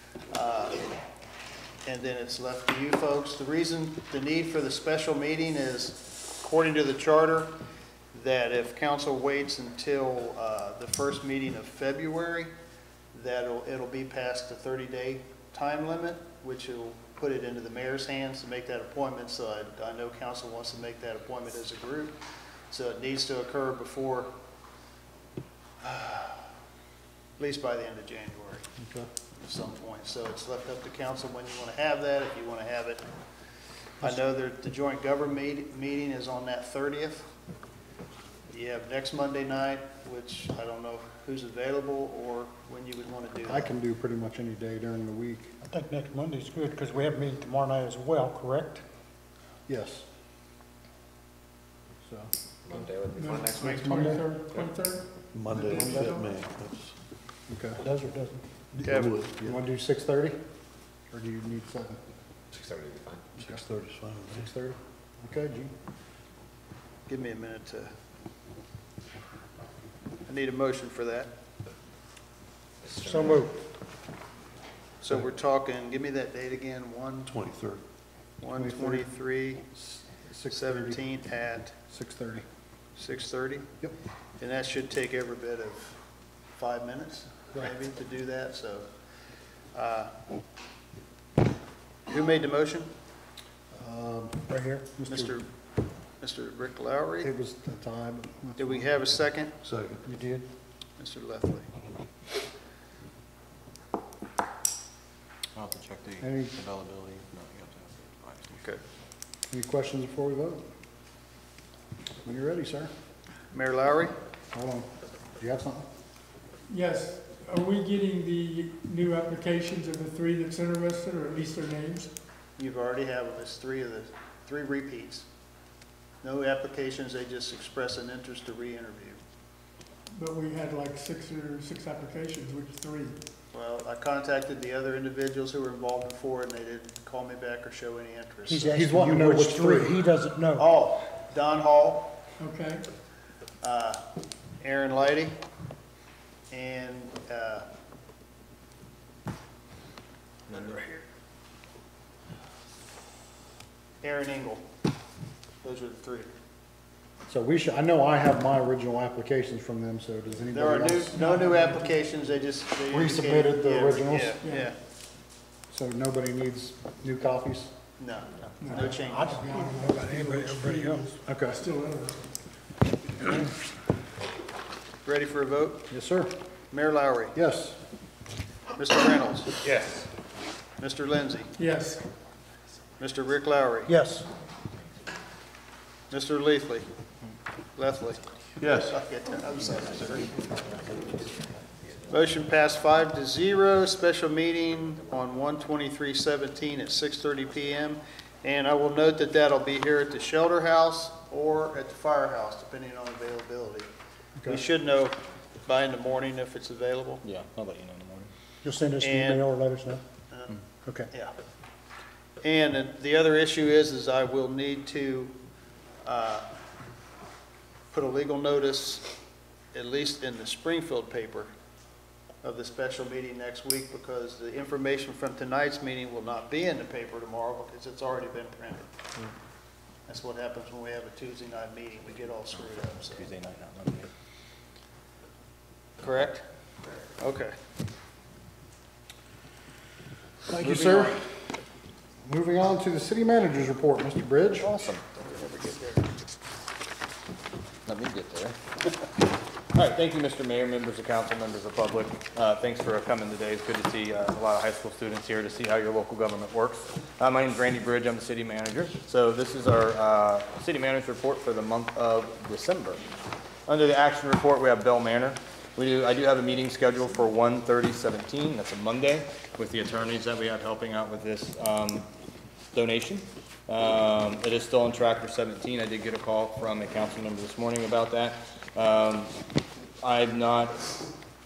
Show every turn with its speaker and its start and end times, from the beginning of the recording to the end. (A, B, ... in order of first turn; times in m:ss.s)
0:00.3-0:00.9 A
0:01.8-0:07.5 A
0:08.1-0:12.5 A
0:13.1-0:22.2 A
0:22.7-0:24.3 A
0:25.8-0:26.5 A
0:27.4-0:28.7 A
0:28.8-0:29.1 B
0:29.4-0:33.0 A
0:34.0-0:37.3 A
0:38.5-0:43.7 A
0:43.5-0:45.6 B
0:45.6-0:48.8 C
0:49.7-0:50.1 B
0:52.0-0:52.3 B
0:52.6-0:54.6 D
0:53.1-0:56.3 E
0:55.3-0:56.9 F
0:57.5-0:57.8 B
0:57.8-0:58.4 C
0:58.7-0:59.6 F
0:58.8-0:59.1 A
0:59.4-1:00.4 B
1:01.1-1:02.0 B
1:02.5-1:03.3 D
1:03.4-1:04.5 F
1:03.4-1:03.6 B
1:04.3-1:05.7 B
1:07.1-1:07.9 A
1:10.3-1:11.3 A
1:12.8-1:13.4 D
1:13.1-1:13.5 C
1:15.0-1:17.3 A
1:17.3-1:17.8 F
1:18.4-1:19.6 A
1:18.6-1:19.1 B
1:19.8-1:21.0 B
1:20.5-1:21.8 A
1:21.9-1:22.4 B
1:23.0-1:23.7 A
1:24.4-1:26.0 A
1:26.6-1:28.9 A
1:29.7-1:30.1 A
1:32.1-1:32.9 A
1:33.7-1:35.4 B
1:34.5-1:35.0 C
1:35.1-1:35.5 A
1:36.2-1:37.3 A
1:37.2-1:38.9 B
1:38.6-1:39.6 A
1:39.6-1:40.0 F
1:41.0-1:41.7 A
1:45.6-1:48.8 G
1:46.2-1:46.6 B
1:49.5-1:50.7 B
1:52.2-1:52.9 B
1:53.5-1:54.2 A
1:54.5-1:55.9 B
1:56.7-2:02.1 E
2:02.6-2:05.3 A
2:06.2-2:09.2 A
2:10.1-2:13.2 E
2:13.5-2:18.8 A
2:18.5-2:20.7 C
2:18.6-2:20.0 B
2:20.6-2:22.1 A
2:22.4-2:22.8 E
2:23.6-2:24.0 A
2:24.6-2:25.4 A
2:26.5-2:27.6 A
2:30.5-2:31.0 A
2:34.0-2:34.6 A
2:35.6-2:36.3 A
2:37.3-2:41.8 B
2:40.5-2:44.8 A
2:42.9-2:44.4 B
2:44.4-2:44.7 E
2:45.7-2:47.8 B
2:48.0-2:49.6 A
2:48.6-2:52.4 E
2:48.7-2:49.0 B
2:49.0-2:51.1 C
2:51.3-2:51.6 B
2:55.0-2:55.9 A
2:55.9-2:56.3 B
2:56.7-2:57.3 A
2:57.3-2:57.8 B
2:58.8-2:59.6 A
2:59.6-3:00.1 D
3:00.8-3:01.5 A
3:01.6-3:02.0 E
3:03.0-3:03.9 A
3:03.9-3:04.3 C
3:06.1-3:06.9 A
3:07.8-3:10.8 A
3:08.6-3:09.0 F
3:12.1-3:23.9 A
3:24.4-3:27.2 A
3:27.2-3:28.3 G
3:28.6-3:30.0 C
3:29.0-3:29.4 A
3:30.3-3:30.6 A
3:30.8-3:31.1 C
3:32.4-3:35.3 A
3:36.0-3:36.5 A
3:37.9-3:39.1 A
3:39.7-3:41.5 A
3:42.4-3:48.9 A
3:50.1-3:53.3 A
3:53.1-3:54.1 G
3:56.0-3:56.4 A
3:57.2-3:57.6 A
4:00.5-4:01.3 B
4:00.6-4:01.2 G
4:02.2-4:04.7 B
4:04.6-4:05.6 G
4:05.2-4:06.1 A
4:07.9-4:09.1 G
4:09.8-4:23.0 G
4:23.7-4:32.1 G
4:32.7-4:39.4 G
4:40.0-4:40.8 G